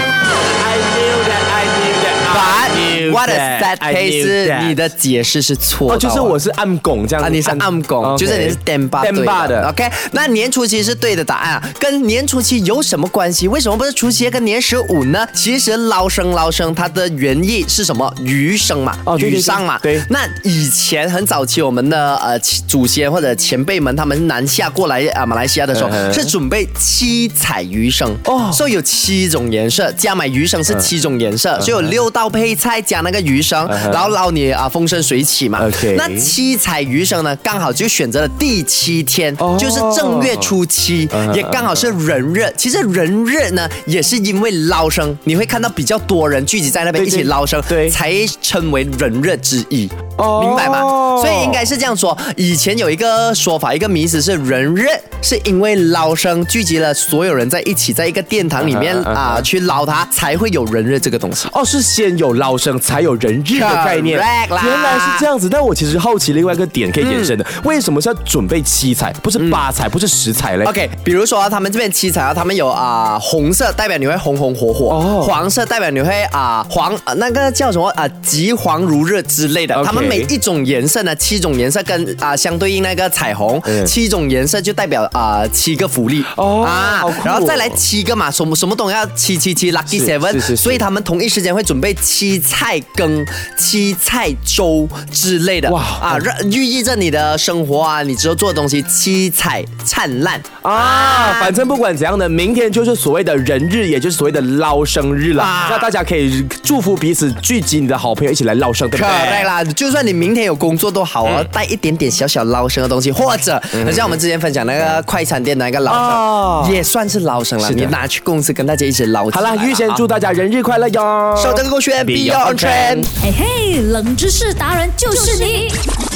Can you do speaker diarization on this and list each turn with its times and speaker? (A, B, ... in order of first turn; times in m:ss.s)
0:00.5-0:04.8 A
0:02.3-0:06.4 B
0:05.9-0:09.7 A
0:07.2-1:01.5 B
0:19.0-0:20.1 A
0:25.7-0:26.3 A
0:28.3-0:28.6 A
0:31.6-0:31.9 A
0:33.7-0:34.1 A
0:35.6-0:36.3 A
0:39.4-0:40.5 A
0:41.1-0:41.8 A
0:46.9-0:48.0 A
0:50.2-0:51.6 A
0:58.6-0:59.5 A
1:01.5-1:10.7 A
1:03.5-1:05.2 B
1:07.0-1:07.3 B
1:09.4-1:09.6 B
1:10.6-1:41.5 B
1:14.9-1:15.4 A
1:19.7-1:20.3 A
1:23.6-1:23.9 A
1:26.3-1:27.8 A
1:29.9-1:30.8 A
1:35.7-1:36.2 A
1:40.6-1:49.5 A
1:45.4-1:45.9 B
1:48.9-2:00.0 B
1:53.7-1:54.2 A
1:55.9-1:56.8 A
1:57.6-1:58.0 A
1:59.3-2:03.0 A
2:01.3-2:03.1 B
2:03.2-2:05.8 C